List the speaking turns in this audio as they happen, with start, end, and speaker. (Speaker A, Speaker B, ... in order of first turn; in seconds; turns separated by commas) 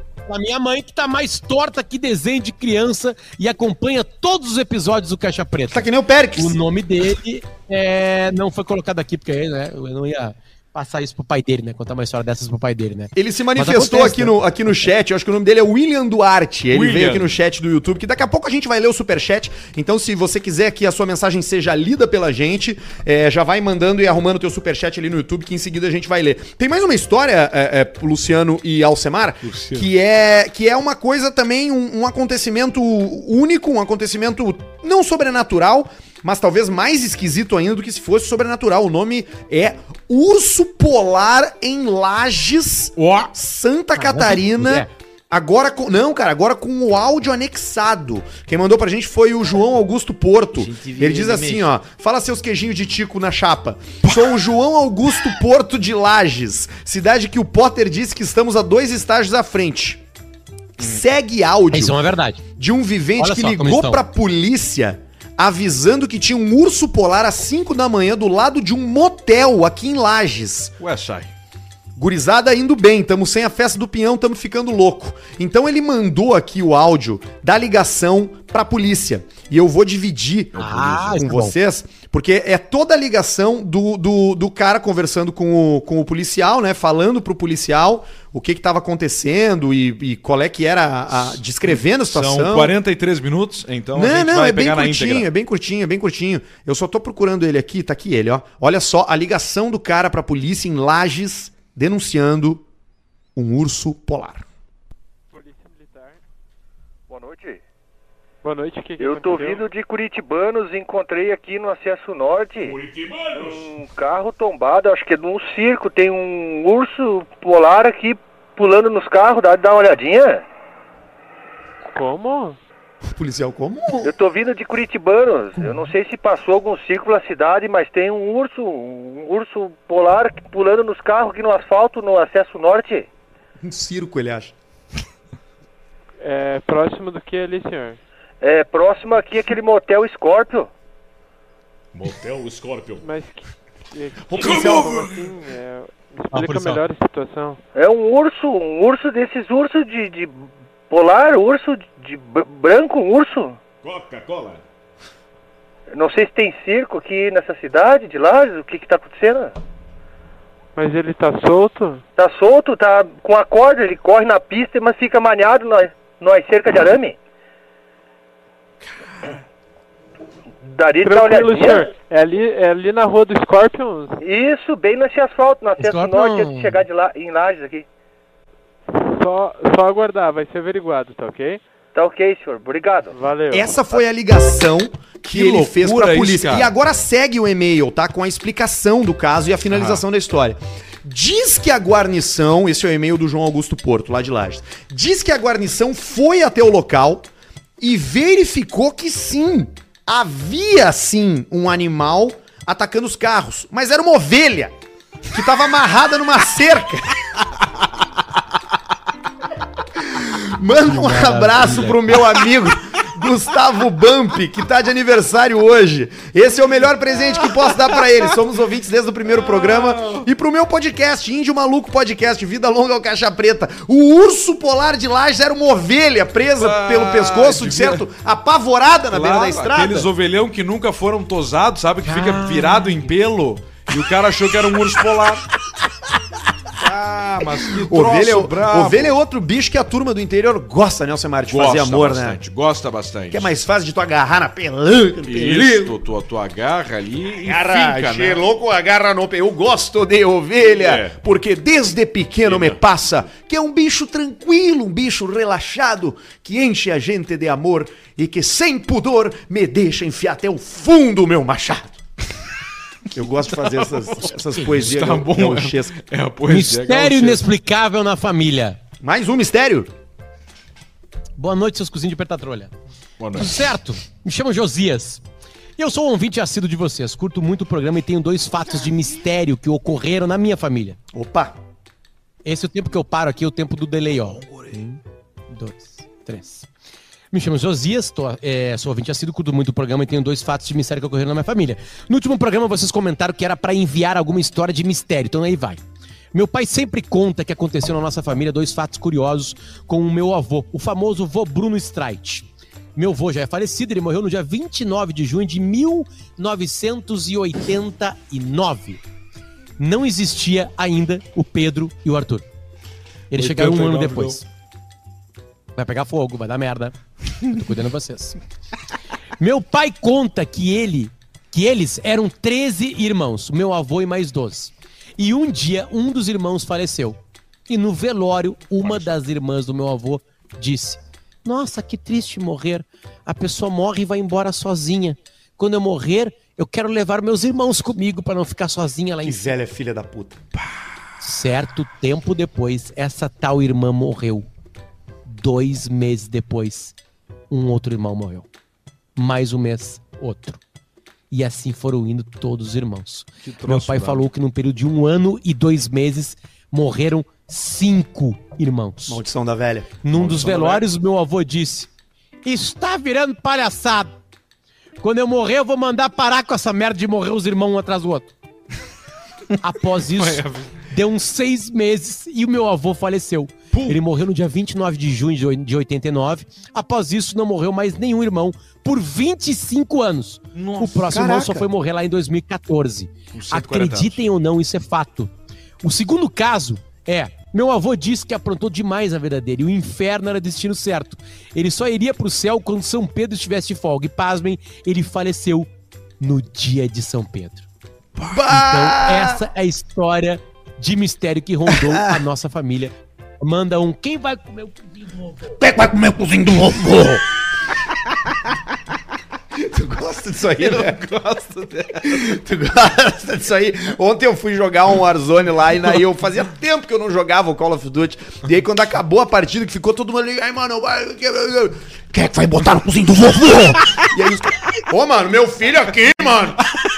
Speaker A: 0.3-14.4, Speaker B: 5.7-6.6, Speaker B: 13.2-60.0, Speaker C: 16.7-17.3, Speaker C: 29.4-29.9, Speaker C: 43.0-43.3, Speaker A: 44.0-44.9, Speaker C: 50.6-51.6, Speaker B: 60.8-62.0, Speaker A: 61.7-62.4, Speaker B: 62.6-70.7, Speaker A: 63.2-64.0, Speaker C: 70.8-71.3, Speaker B: 72.0-92.7, Speaker C: 80.5-81.2, Speaker A: 80.6-81.5, Speaker C: 91.8-95.3, Speaker B: 93.9-102.6, Speaker B: 103.4-104.5, Speaker D: 105.3-106.2, Speaker E: 107.1-107.6, Speaker D: 108.4-109.7, Speaker E: 109.0-112.8, Speaker C: 112.8-113.4, Speaker E: 113.3-120.4, Speaker D: 121.9-122.6, Speaker B: 123.0-124.1, Speaker E: 124.0-133.1, Speaker B: 133.6-134.5, Speaker D: 136.2-138.0, Speaker E: 138.4-140.7, Speaker C: 141.9-143.0, Speaker D: 143.0-147.6, Speaker B: 144.3-145.1, Speaker C: 144.3-145.3, Speaker A: 146.3-146.8, Speaker E: 147.8-153.6, Speaker C: 153.8-154.6, Speaker E: 155.9-159.6, Speaker D: 160.8-162.0, Speaker E: 162.2-167.2, Speaker E: 170.7-171.9, Speaker D: 171.0-174.2, Speaker E: 174.2-177.9, Speaker A: 175.8-176.8, Speaker D: 178.9-181.6, Speaker E: 181.9-183.2, Speaker D: 183.1-183.8, Speaker B: 183.5-197.3, Speaker C: 185.3-186.7, Speaker C: 189.7-190.0, Speaker B: 197.8-204.8, Speaker B: 205.3-207.1, Speaker B: 209.9-230.1, Speaker A: 210.8-212.2, Speaker C: 219.4-220.2, Speaker C: 226.6-228.0, Speaker C: 229.1-235.5, Speaker B: 232.3-232.7, Speaker C: 236.8-239.2, Speaker B: 237.4-242.4, Speaker C: 241.5-243.5, Speaker B: 243.3-246.0, Speaker C: 245.2-248.4, Speaker B: 247.4-262.0, Speaker C: 250.7-251.2, Speaker C: 252.4-252.8, Speaker B: 263.1-266.0, Speaker C: 263.7-267.4, Speaker A: 266.5-268.8, Speaker B: 269.0-269.9, Speaker A: 271.4-272.7, Speaker C: 273.2-273.6, Speaker A: 273.4-275.2, Speaker A: 275.8-281.0, Speaker B: 281.1-281.6, Speaker A: 282.4-286.7, Speaker A: 287.3-295.8, Speaker A: 296.3-309.0, Speaker A: 309.8-312.4, Speaker A: 313.3-314.4, Speaker C: 313.4-314.4, Speaker A: 315.8-318.4, Speaker A: 319.4-339.5, Speaker B: 339.2-340.4, Speaker A: 341.2-344.5, Speaker A: 345.3-346.9, Speaker A: 347.5-348.5, Speaker A: 349.2-350.6, Speaker A: 351.3-359.2, Speaker C: 353.4-354.2, Speaker B: 359.1-360.1, Speaker A: 360.0-361.9, Speaker C: 360.1-360.8, Speaker A: 362.4-364.1, Speaker A: 365.0-368.3, Speaker A: 369.6-385.3, Speaker C: 370.1-370.7, Speaker C: 373.7-374.0, Speaker C: 380.6-381.1, Speaker B: 381.1-381.7, Speaker C: 383.3-384.2, Speaker A: 385.8-395.7, Speaker A: 396.2-397.7, Speaker B: 398.2-399.4, Speaker A: 398.5-405.4, Speaker B: 401.7-402.1, Speaker B: 405.6-407.2, Speaker B: 409.5-426.6, Speaker C: 410.8-411.1